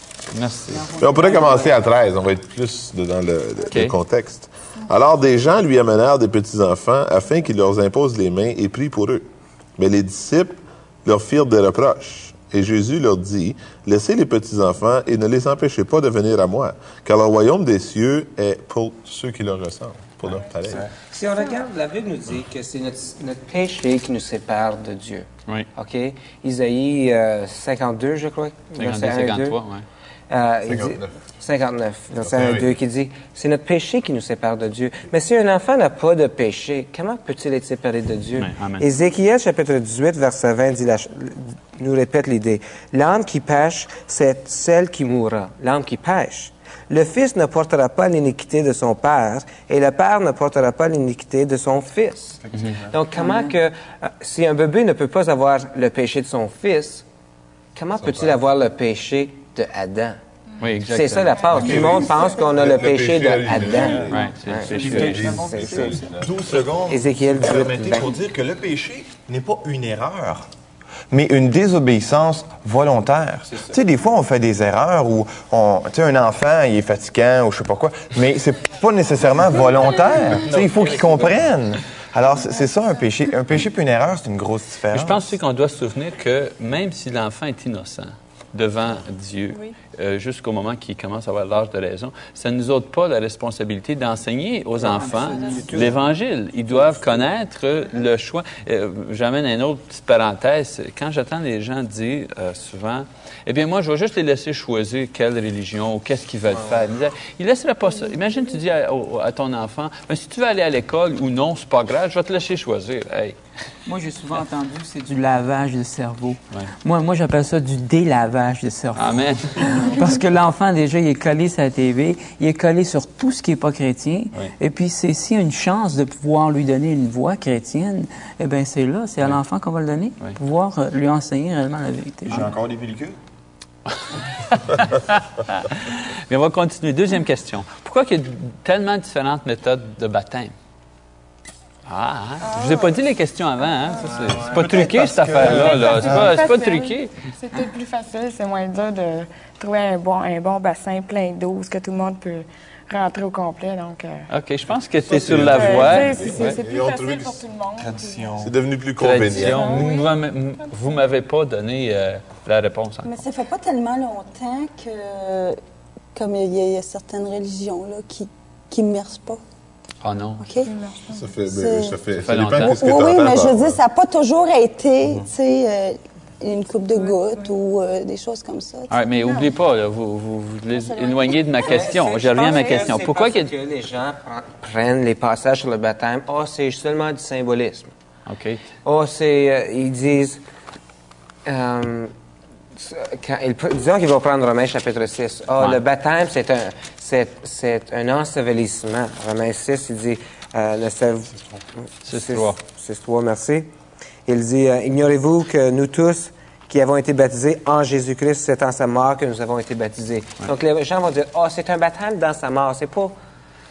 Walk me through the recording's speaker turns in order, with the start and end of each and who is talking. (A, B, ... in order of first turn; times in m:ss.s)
0:00.3-0:00.9 A
0:00.7-0:01.7 B
0:01.0-0:20.9 C
0:03.7-0:04.0 A
0:20.7-0:29.6 D
0:28.7-0:29.8 A
0:30.3-0:57.0 D
0:30.6-0:31.1 C
0:32.2-0:32.7 C
0:38.4-0:38.8 A
0:53.2-0:53.5 B
0:57.7-1:00.2 D
0:58.0-0:58.4 C
1:00.6-1:01.8 A
1:00.8-1:06.0 D
1:01.5-1:06.6 C
1:04.1-1:05.2 A
1:04.8-1:05.5 B
1:04.9-1:10.5 E
1:06.8-1:08.1 D
1:11.1-1:25.3 E
1:20.4-1:21.2 A
1:24.9-1:53.4 A
1:34.8-1:35.9 D
1:53.8-2:12.5 B
1:58.9-1:59.8 A
2:12.2-2:13.2 E
2:13.9-2:20.5 A
2:21.8-2:27.2 A
2:22.4-2:23.0 F
2:24.3-2:26.4 E
2:25.4-2:34.3 F
2:34.3-2:36.6 A
2:35.0-2:37.5 C
2:35.3-2:38.4 F
2:37.8-2:38.5 E
2:38.4-2:39.8 C
2:39.0-2:43.2 A
2:39.6-2:40.0 F
2:43.0-2:45.6 G
2:46.1-2:49.4 G
2:50.0-2:50.5 A
2:50.4-2:50.7 G
2:50.6-2:51.2 F
2:51.1-2:53.8 C
2:51.4-2:52.0 G
2:52.2-2:52.7 A
2:52.5-2:58.9 G
2:56.9-2:57.5 F
2:58.9-3:03.5 A
3:00.7-3:01.4 G
3:01.6-3:07.9 D
3:08.3-3:08.6 A
3:08.8-3:10.4 D
3:11.4-3:12.1 D
3:12.7-3:23.7 D
3:22.0-3:22.6 A
3:24.2-3:33.1 D